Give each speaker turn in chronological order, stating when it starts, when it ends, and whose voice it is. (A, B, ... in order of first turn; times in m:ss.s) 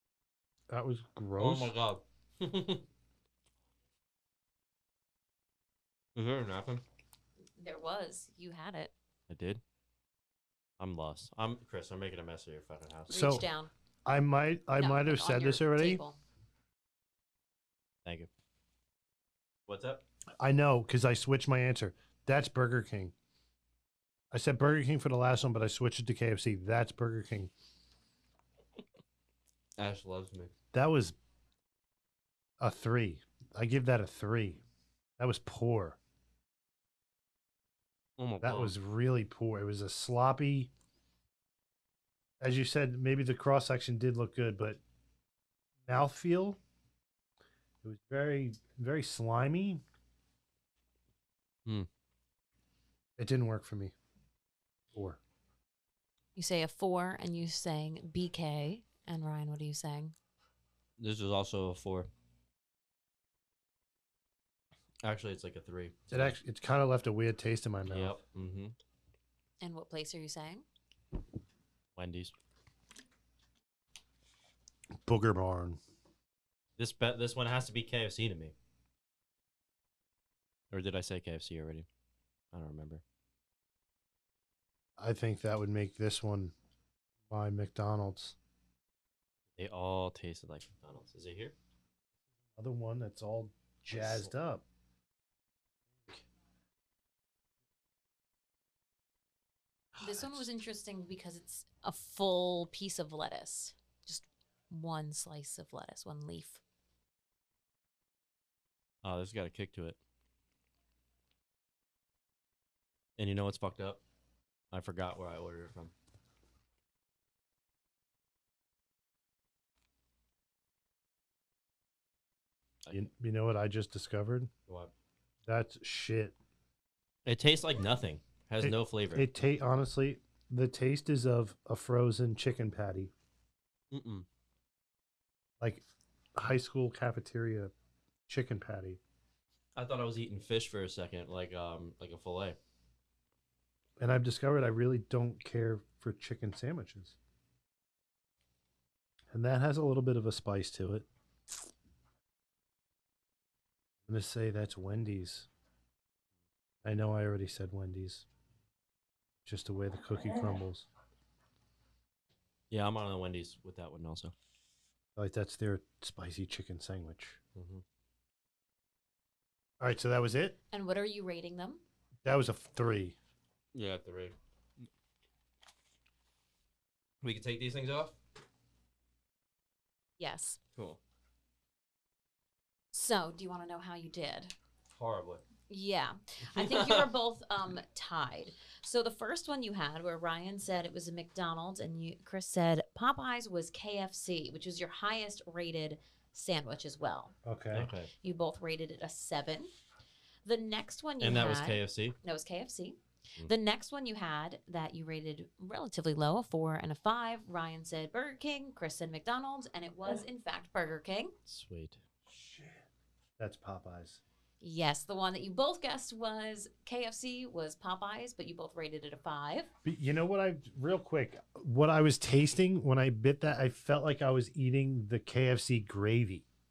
0:00.7-0:01.7 A
0:01.4-0:02.8 B
0:06.2-0:06.8 B
0:07.6-0:08.9 C
0:09.3-0:09.6 B
0:10.8-0:13.4 B
0:13.1-0:13.7 C
0:13.1-0:13.4 A
0:14.1-0:16.0 A
0:14.8-0:16.2 C
0:19.7-0:20.0 B
0:20.4-0:23.1 A
0:24.3-0:27.5 A
0:29.8-0:30.5 B
0:30.7-0:31.2 A
0:32.6-0:34.6 A
0:35.2-0:36.0 A
0:38.2-0:38.7 B
0:38.4-0:40.7 A
0:42.4-0:44.8 A
0:45.9-0:46.6 A
0:47.8-0:49.8 A
0:53.2-0:53.9 A
0:54.9-0:55.2 A
0:56.4-1:00.2 C
1:01.0-1:02.1 B
1:05.0-1:06.4 B
1:06.1-1:08.2 A
1:07.9-1:08.8 B
1:09.6-1:10.6 C
1:12.0-1:12.3 B
1:15.0-1:15.8 A
1:16.8-1:18.5 B
1:20.7-1:21.9 B
1:22.5-1:23.0 B
1:25.0-1:26.5 A
1:27.3-1:28.4 A
1:29.6-1:31.6 B
1:32.6-1:34.6 A
1:33.9-1:34.3 B
1:40.0-1:40.4 A
1:40.0-1:46.6 C
1:49.0-1:50.0 B
1:53.2-1:54.0 B
1:54.7-1:55.9 B
2:02.9-2:04.5 A
2:05.5-2:06.4 A
2:07.3-2:09.3 B
2:08.6-2:13.1 A
2:13.9-2:14.3 B
2:16.4-2:17.7 A
2:18.3-2:19.0 A
2:19.8-2:22.6 B
2:24.0-2:27.2 A
2:29.3-2:31.1 A
2:34.1-2:35.5 A
2:36.8-2:38.2 A
2:39.4-2:40.9 A
2:42.7-2:44.3 B
2:45.2-2:47.4 A
2:47.6-2:47.8 B
2:49.8-2:50.6 A
2:50.7-2:51.8 C
2:52.2-2:53.2 A
2:53.7-2:54.4 B
2:57.2-2:58.2 B
3:00.2-3:00.6 C
3:02.9-3:04.5 C
3:05.0-3:05.4 B
3:05.7-3:17.3 C
3:06.6-3:07.1 B
3:17.4-3:17.9 A
3:17.7-3:18.1 B
3:18.2-3:19.7 C
3:20.4-3:31.3 C
3:21.2-3:22.2 B
3:31.5-3:32.0 B
3:32.3-3:32.8 A
3:33.4-3:34.2 A
3:34.6-3:39.7 C
3:39.8-3:46.4 A